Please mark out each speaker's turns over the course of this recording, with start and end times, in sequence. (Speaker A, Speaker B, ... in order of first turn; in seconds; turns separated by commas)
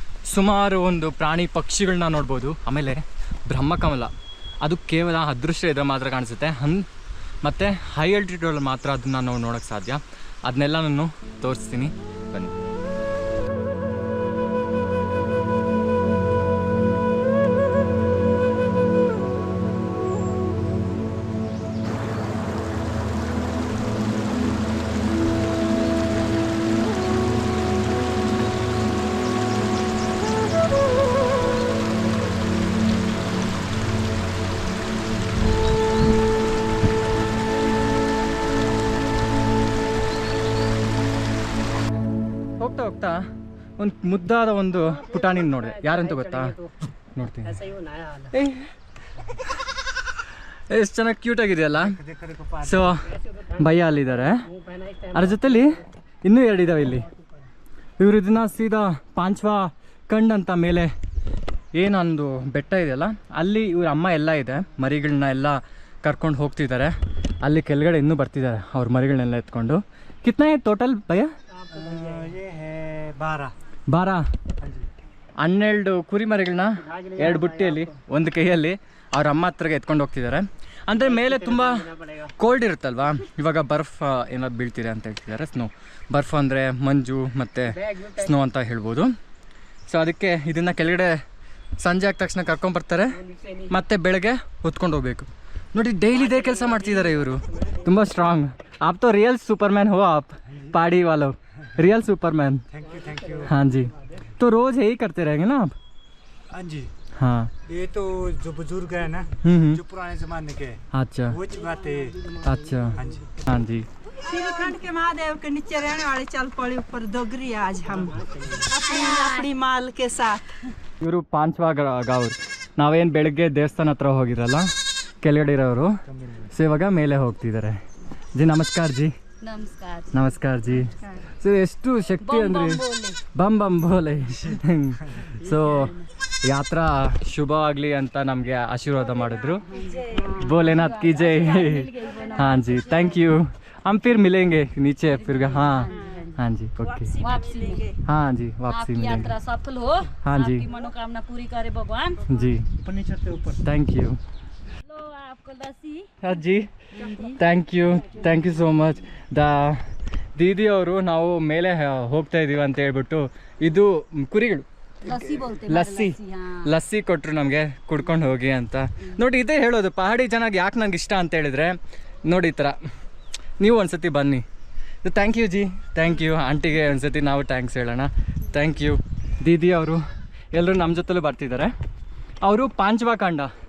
Speaker A: 0.2-6.9, Speaker A: 7.4-12.5, Speaker A: 42.6-43.2, Speaker A: 43.8-46.6, Speaker A: 47.1-47.6, Speaker B: 47.7-48.2, Speaker A: 48.3-48.7, Speaker A: 50.7-52.0, Speaker C: 51.9-53.0, Speaker A: 52.6-54.5, Speaker B: 54.6-55.0, Speaker A: 55.1-57.1, Speaker A: 58.0-60.9, Speaker A: 61.7-71.3, Speaker C: 71.7-73.5, Speaker B: 71.8-72.2, Speaker A: 73.9-74.3, Speaker C: 74.6-74.9, Speaker A: 75.4-89.1, Speaker A: 89.9-91.2, Speaker A: 91.8-102.7, Speaker C: 102.7-103.5, Speaker A: 103.4-105.7, Speaker C: 106.5-106.9, Speaker A: 107.2-107.5, Speaker C: 107.7-113.4, Speaker A: 109.4-109.8, Speaker A: 110.9-111.5, Speaker A: 112.4-113.9, Speaker B: 114.2-120.4, Speaker D: 118.7-119.5, Speaker A: 121.0-124.7, Speaker A: 125.2-126.0, Speaker A: 126.5-127.8, Speaker A: 128.3-129.1, Speaker D: 129.4-130.2, Speaker A: 130.1-139.6, Speaker D: 132.2-133.2, Speaker D: 139.7-143.2, Speaker A: 140.4-147.2, Speaker D: 145.1-146.4, Speaker D: 147.1-147.9, Speaker A: 148.0-149.4, Speaker D: 148.7-152.3, Speaker A: 150.2-150.7, Speaker A: 152.3-152.8, Speaker C: 152.8-153.6, Speaker A: 153.6-154.2, Speaker D: 154.8-156.3, Speaker A: 156.2-156.7, Speaker D: 156.9-157.4, Speaker A: 157.3-172.8, Speaker D: 165.0-166.7, Speaker A: 173.6-174.4, Speaker A: 175.0-181.7, Speaker A: 182.4-183.5